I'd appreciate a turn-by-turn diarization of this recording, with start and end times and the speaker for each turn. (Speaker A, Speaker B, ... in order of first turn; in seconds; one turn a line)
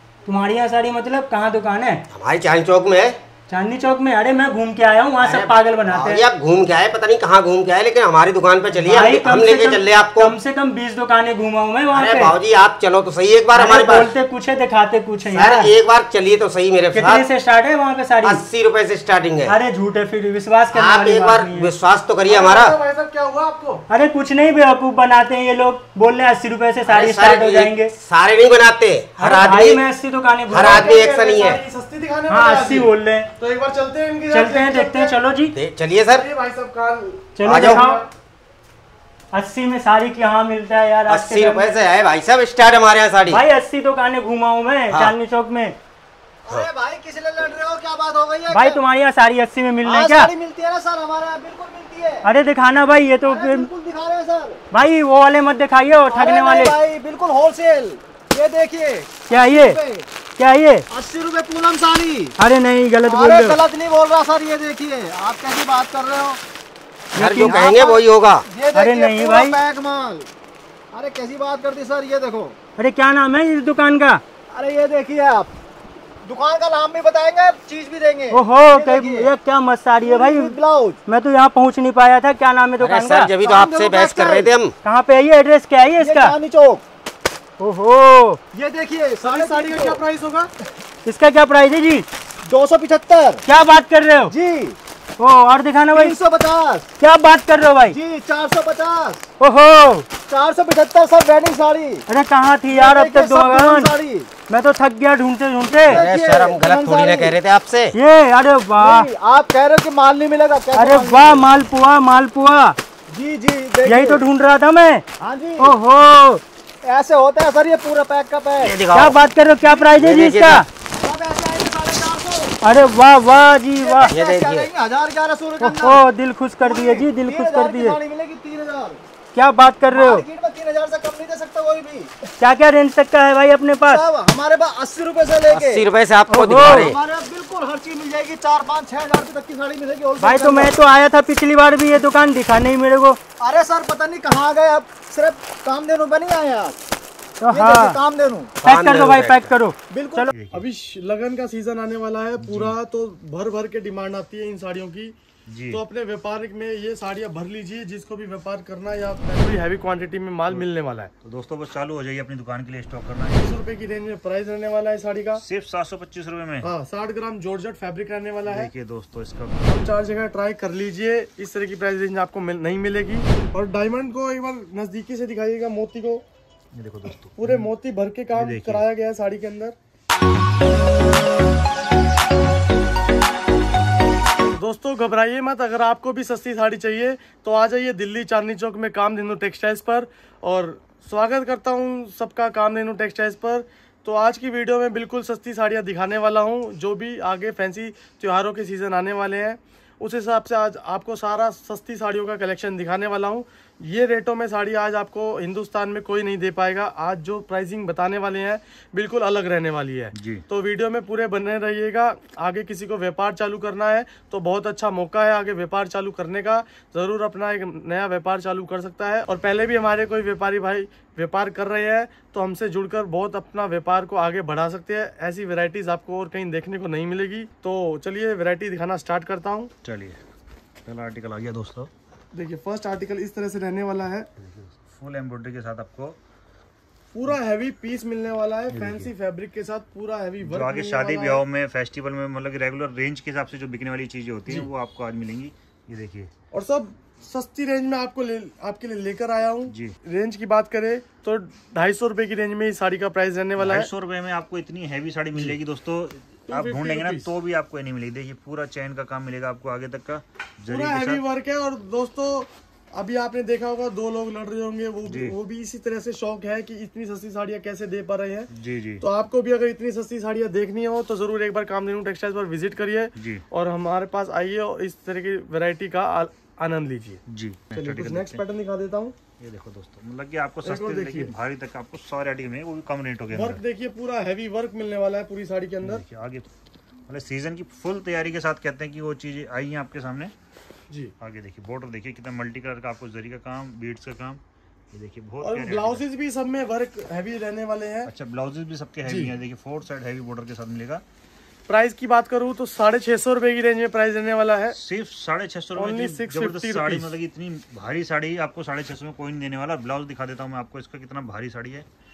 Speaker A: 0.2-2.1
Speaker B: 2.1-3.2
Speaker A: 3.5-6.2
Speaker B: 5.2-10.4
Speaker A: 8.7-12.3
Speaker B: 11.9-14.1
Speaker A: 13.5-15.7
Speaker B: 15.3-17.2
Speaker A: 16.9-18.4
Speaker B: 18.2-19.6
Speaker A: 19.4-21.7
Speaker B: 20.7-22.7
Speaker C: 22.3-23.8
Speaker A: 23.9-27.9
Speaker B: 26.8-29.8
Speaker A: 29.2-30.9
Speaker B: 30.5-31.6
Speaker C: 30.6-35.2
Speaker A: 32.3-33.3
Speaker A: 34.3-35.5
Speaker B: 35.5-36.2
Speaker C: 36.1-38.1
Speaker A: 37.4-38.0
Speaker B: 37.4-37.8
Speaker A: 39.3-41.7
Speaker B: 41.1-43.4
Speaker A: 43.3-45.8
Speaker B: 44.9-45.2
Speaker D: 46.5-48.8
Speaker A: 48.5-50.3
Speaker D: 49.8-52.2
Speaker A: 52.2-53.7
Speaker D: 53.3-54.6
Speaker A: 54.7-56.8
Speaker D: 56.1-60.1
Speaker A: 59.3-59.8
Speaker A: 60.4-60.9
Speaker D: 60.9-62.3
Speaker A: 62.4-63.6
Speaker D: 63.1-66.4
Speaker A: 67.1-67.8
Speaker B: 67.1-68.5
Speaker D: 67.4-70.3
Speaker A: 68.7-69.6
Speaker D: 70.9-72.5
Speaker A: 72.8-74.2
Speaker D: 74.5-75.5
Speaker D: 76.2-79.2
Speaker A: 78.3-83.3
Speaker D: 80.0-81.0
Speaker B: 82.8-84.7
Speaker D: 83.4-84.5
Speaker A: 84.8-86.4
Speaker D: 86.0-86.8
Speaker A: 87.6-88.4
Speaker D: 88.5-90.0
Speaker C: 89.2-90.5
Speaker A: 91.0-92.0
Speaker D: 92.4-93.4
Speaker A: 93.5-94.3
Speaker D: 94.3-94.8
Speaker A: 95.2-96.2
Speaker D: 95.9-96.8
Speaker A: 97.0-98.0
Speaker D: 97.9-99.2
Speaker A: 99.4-100.0
Speaker D: 100.3-102.0
Speaker A: 102.1-104.0
Speaker D: 102.7-104.3
Speaker A: 104.5-106.1
Speaker B: 105.9-107.9
Speaker D: 106.0-107.4
Speaker A: 107.9-109.1
Speaker D: 108.8-111.4
Speaker A: 110.7-112.8
Speaker D: 113.1-114.2
Speaker A: 113.8-115.0
Speaker D: 115.2-115.7
Speaker A: 115.6-116.4
Speaker D: 116.8-118.7
Speaker B: 118.6-119.2
Speaker A: 118.9-120.7
Speaker B: 119.9-120.6
Speaker D: 121.0-122.5
Speaker A: 122.6-124.2
Speaker D: 123.8-126.0
Speaker B: 124.0-124.7
Speaker A: 125.6-128.0
Speaker D: 126.6-129.0
Speaker A: 129.3-130.2
Speaker D: 129.9-132.1
Speaker A: 132.4-134.1
Speaker D: 133.9-135.8
Speaker B: 135.5-137.0
Speaker A: 136.3-136.9
Speaker D: 136.9-140.7
Speaker A: 140.2-143.2
Speaker D: 143.4-146.8
Speaker A: 147.4-148.0
Speaker D: 147.5-148.5
Speaker B: 148.6-149.5
Speaker A: 148.6-150.3
Speaker D: 149.9-150.3
Speaker E: 150.3-150.7
Speaker C: 150.5-155.1
Speaker E: 152.4-152.8
Speaker E: 155.5-155.8
Speaker C: 155.7-161.1
Speaker E: 161.2-163.6
Speaker C: 163.3-165.4
Speaker E: 165.4-166.7
Speaker C: 166.6-168.7
Speaker E: 168.4-169.9
Speaker C: 169.7-176.2
Speaker E: 176.7-177.7
Speaker C: 177.4-179.8
Speaker E: 178.3-178.8
Speaker C: 184.5-229.7
Speaker E: 210.1-210.4
Speaker E: 229.8-230.2
Speaker E: 230.8-231.9
Speaker C: 232.3-234.3
Speaker E: 234.4-236.2
Speaker C: 237.1-241.4
Speaker E: 238.7-239.1
Speaker E: 240.4-246.3
Speaker C: 246.5-253.9
Speaker E: 249.7-249.9
Speaker E: 253.6-261.2
Speaker C: 256.5-257.3
Speaker C: 260.7-277.2
Speaker E: 265.1-265.4
Speaker E: 268.5-269.1
Speaker E: 273.1-273.4
Speaker E: 277.3-278.4
Speaker C: 277.7-279.1
Speaker E: 279.4-283.6
Speaker C: 280.6-281.3
Speaker C: 283.3-286.0
Speaker E: 285.8-286.5
Speaker E: 287.1-290.3
Speaker E: 291.2-294.4
Speaker E: 294.9-296.0
Speaker C: 295.4-298.1
Speaker E: 298.1-301.0
Speaker C: 299.1-299.4
Speaker C: 301.7-304.8
Speaker E: 304.7-311.9
Speaker C: 305.8-307.1